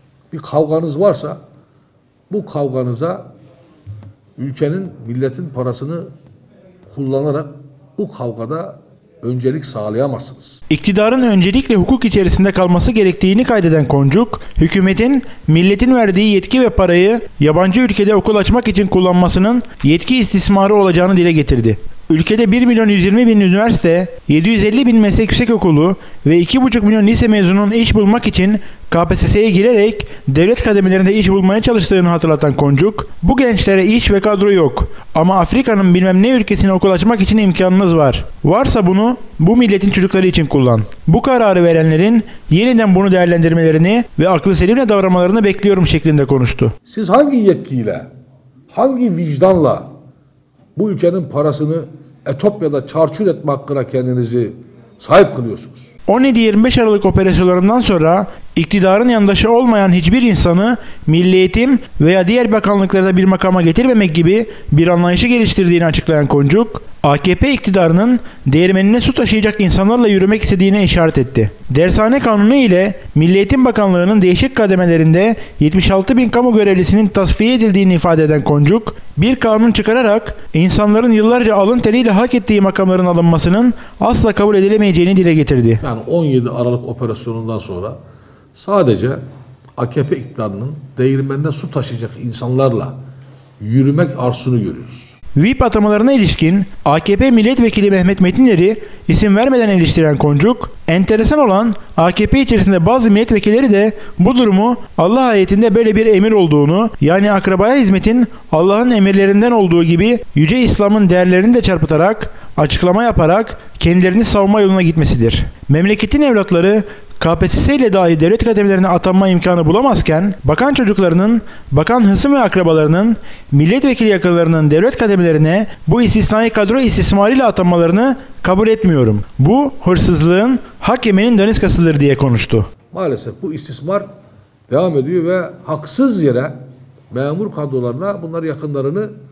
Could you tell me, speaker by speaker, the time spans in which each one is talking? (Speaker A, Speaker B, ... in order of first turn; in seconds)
Speaker A: 0.3-1.4, 2.3-3.2, 4.4-6.1, 6.9-10.6, 46.9-48.1, 48.7-49.9, 50.8-55.9, 85.8-88.0, 88.5-89.2, 89.8-92.9, 93.6-95.2, 132.9-134.1, 134.7-139.1
Speaker B: 10.7-46.8, 56.1-85.8, 95.3-132.7